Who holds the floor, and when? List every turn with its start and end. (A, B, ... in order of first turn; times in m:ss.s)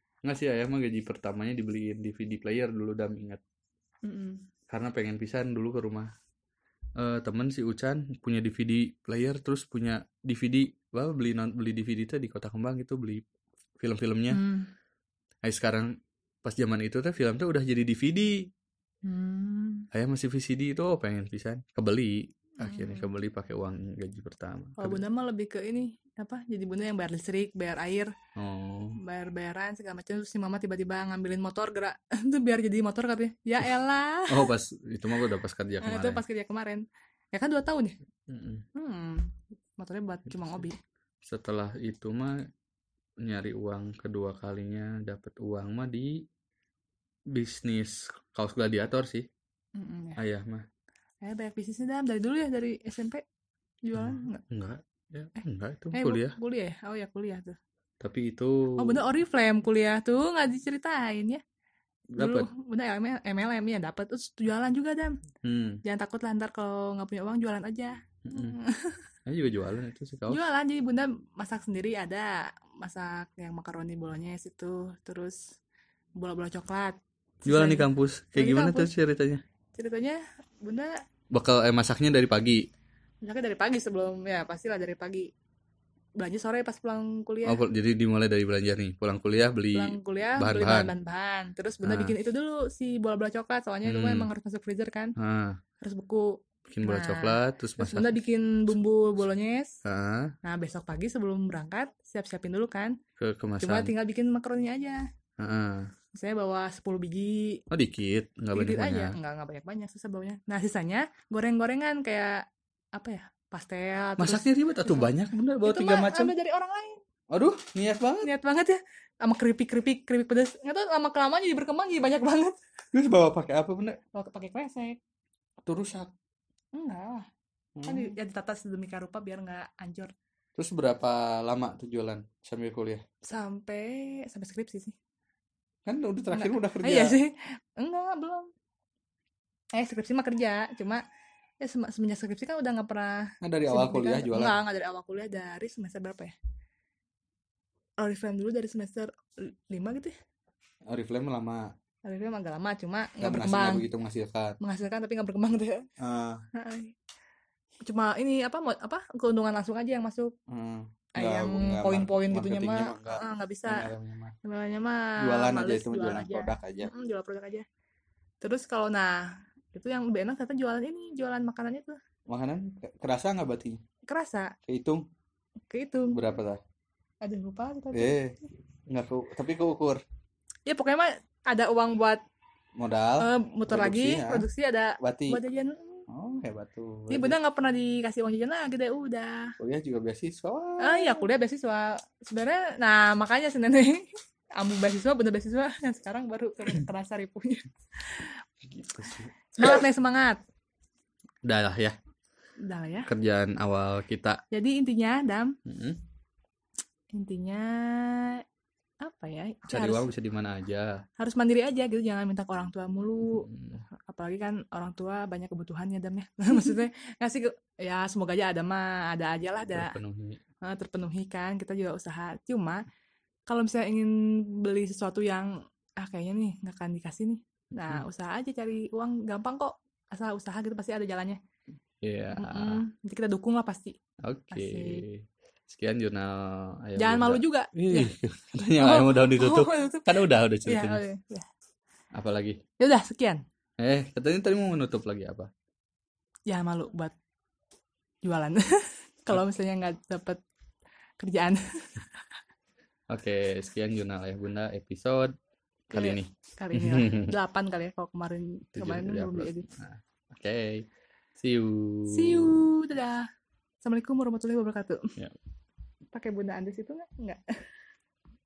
0:00.2-0:03.4 A
0:04.0-0:04.4 B
0:04.7-0:06.1 A
0:07.0-0:13.2 A
0:13.8-0:14.4 A
0:14.3-0:14.7 B
0:15.4-0:15.9 A
0:16.4-0:18.5 A
0:19.0-0:19.9 B
0:19.9-0:25.0 A
0:22.6-0:23.1 B
0:24.8-0:28.1 B
0:28.4-0:29.0 A
0:29.0-0:34.5 B
0:34.3-0:36.2 A
0:35.8-0:38.0 B
0:38.3-0:38.6 A
0:38.8-0:40.8 B
0:41.2-0:42.4 A
0:43.2-0:46.2 A
0:47.3-0:49.2 A
0:49.8-0:50.2 B
0:50.2-0:50.6 A
0:51.2-0:53.2 B
0:53.8-0:54.4 B
0:54.0-0:56.4 A
0:55.9-0:57.6 B
0:58.0-0:59.0 A
0:58.8-1:01.4 B
1:02.1-1:02.5 A
1:02.2-1:05.2 B
1:05.4-1:05.8 A
1:05.8-1:09.0 B
1:08.2-1:08.6 A
1:09.3-1:10.4 A
1:10.3-1:15.6 B
1:16.2-1:18.9 B
1:17.4-1:19.4 A
1:19.7-1:20.9 B
1:21.3-1:22.6 A
1:23.2-1:25.3 B
1:26.2-1:27.6 B
1:27.4-1:30.9 A
1:29.7-1:35.1 B
1:31.8-1:32.2 A
1:33.8-1:34.3 A
1:35.2-1:35.6 A
1:35.8-1:39.8 B
1:36.7-1:38.2 A
1:39.8-1:40.3 A
1:40.4-1:43.0 B
1:43.2-1:43.9 A
1:43.6-1:45.0 B
1:45.4-1:45.9 A
1:46.1-1:47.6 B
1:47.7-1:49.2 A
1:48.5-1:55.1 B
1:54.2-1:56.3 A
1:55.6-1:57.0 B
1:57.3-1:58.3 A
1:58.2-2:02.5 B
2:02.9-2:04.0 A
2:04.1-2:05.0 B
2:05.6-2:06.1 A
2:06.7-2:07.3 B
2:07.8-2:08.2 A
2:07.8-2:10.1 B
2:10.6-2:13.0 A
2:13.2-2:15.0 B
2:15.8-2:17.2 A
2:16.3-2:18.5 B
2:19.7-2:21.0 B
2:21.6-2:26.3 B
2:23.4-2:24.6 A
2:28.0-2:30.1 B
2:30.9-2:31.7 A
2:32.0-2:33.8 B
2:33.2-2:34.6 A
2:34.6-2:35.8 B
2:36.0-2:36.4 A
2:36.5-2:36.9 B
2:37.8-2:40.3 B
2:40.5-2:44.4 A
2:41.2-2:43.9 B
2:44.4-2:47.6 B
2:45.2-2:46.9 A
2:48.4-2:52.0 B
2:52.3-2:53.8 A
2:54.1-2:54.5 B
2:54.7-2:55.0 A
2:55.7-2:56.2 B
2:56.1-2:56.6 A
2:57.2-2:58.2 B
2:57.9-2:58.4 A
2:58.9-3:00.0 A
3:00.7-3:02.2 B
3:02.8-3:04.4 A
3:03.2-3:06.0 B
3:05.0-3:05.4 A
3:06.1-3:07.4 A
3:07.1-3:09.5 B
3:09.6-3:11.3 A
3:10.8-3:14.0 B
3:14.6-3:18.4 B
3:18.7-3:19.8 A
3:19.5-3:20.4 B
3:21.4-3:22.0 A
3:22.6-3:23.1 B
3:23.1-3:24.4 A
3:24.5-3:25.5 B
3:25.6-3:26.0 A
3:27.1-3:28.4 B
3:29.0-3:30.1 B
3:29.7-3:31.0 A
3:31.2-3:33.5 B
3:33.4-3:33.8 A
3:34.1-3:40.0 B
3:39.7-3:40.4 A
3:40.6-3:42.8 B
3:43.5-3:51.4 B
3:52.0-3:52.8 A
3:52.4-3:54.0 B
3:54.2-4:01.0 A
3:54.5-3:55.0 B
3:57.0-3:58.1 B
3:58.8-4:01.5 B
4:02.1-4:02.6 A
4:02.8-4:03.4 B
4:03.8-4:05.5 A
4:06.5-4:07.1 B
4:08.2-4:10.4 B
4:11.2-4:12.2 B
4:13.1-4:15.3 A
4:15.9-4:17.3 A
4:15.9-4:19.7 B
4:18.7-4:20.8 A
4:21.4-4:22.6 A
4:22.1-4:23.2 B
4:23.8-4:25.0 B
4:26.1-4:27.4 B